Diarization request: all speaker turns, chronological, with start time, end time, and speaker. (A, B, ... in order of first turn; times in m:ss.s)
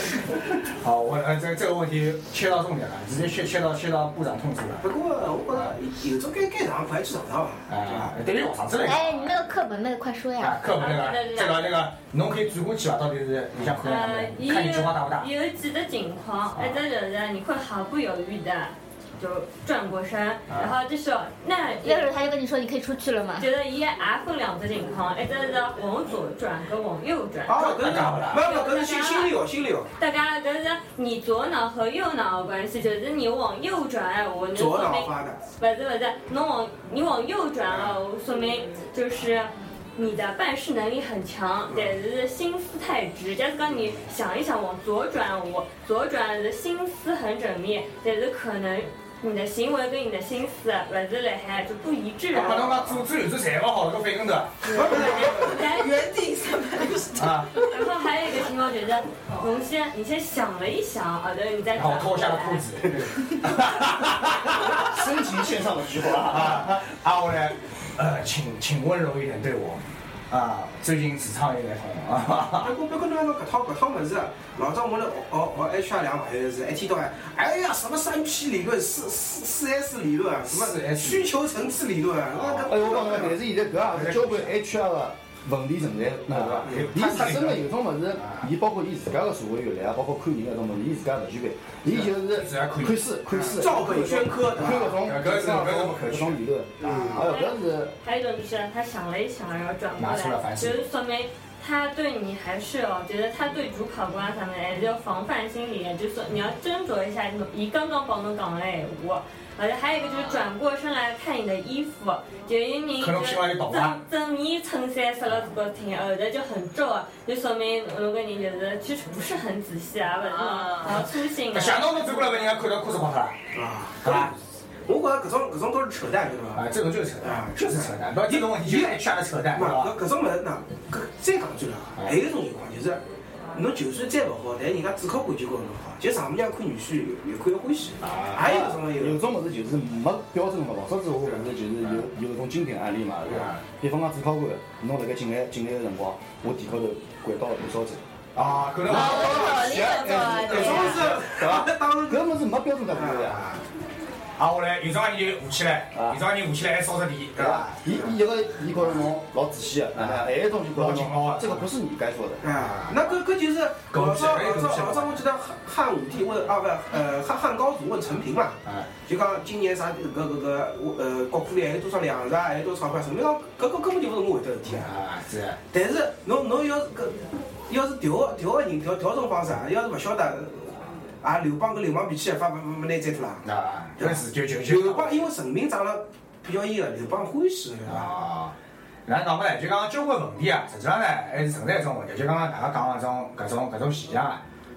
0:00.3-0:04.9 A
0:04.8-0:08.2 B
0:07.7-0:09.4 A
0:08.8-0:10.6 C
0:10.4-0:15.3 A
0:10.8-0:11.8 D
0:13.8-0:22.2 D
0:16.6-0:16.8 A
0:20.5-0:20.7 A
0:21.8-0:23.5 C
0:23.4-0:29.4 D
0:27.5-0:29.9 B
0:27.5-0:28.5 A
0:30.0-0:53.0 D
0:34.5-0:35.4 B
0:37.7-0:38.0 B
0:52.3-0:55.0 A
0:54.7-0:55.9 D
0:54.7-0:55.6 B
0:54.8-0:57.6 E
0:57.2-0:57.5 A
0:57.6-1:02.7 D
1:01.7-1:05.0 A
1:04.7-1:06.8 F
1:06.2-1:12.8 A
1:12.6-1:23.4 B
1:20.5-1:21.3 A
1:22.3-1:23.3 A
1:22.7-1:38.0 F
1:23.9-1:24.5 A
1:26.3-1:27.7 A
1:26.6-1:26.9 B
1:28.2-1:28.5 A
1:31.9-1:33.1 A
1:33.3-1:35.1 B
1:34.6-1:36.4 A
1:36.8-1:37.3 B
1:37.2-2:02.5 D
1:40.0-1:40.9 A
1:53.0-1:54.0 A
2:00.4-2:01.0 E
2:01.5-2:03.4 A
2:03.5-2:04.4 B
2:04.0-2:04.3 A
2:04.9-2:13.0 B
2:06.6-2:10.0 A
2:13.5-2:19.2 B
2:18.0-2:18.7 A
2:18.4-2:28.0 F
2:23.3-2:23.6 A
2:28.4-2:31.4 A
2:28.8-2:33.4 F
2:28.9-2:31.0 C
2:30.4-2:32.3 B
2:32.9-2:33.3 B
2:33.3-2:33.6 A
2:34.4-2:37.8 A
2:36.0-2:36.2 F
2:37.4-2:42.4 F
2:40.0-2:41.7 A
2:42.4-2:54.9 B
2:42.5-2:43.0 A
2:43.9-2:45.2 A
2:48.6-2:48.9 A
2:54.7-2:55.6 A
2:55.7-3:08.1 B
3:03.4-3:05.2 A
3:07.8-3:08.5 A
3:09.1-3:14.4 A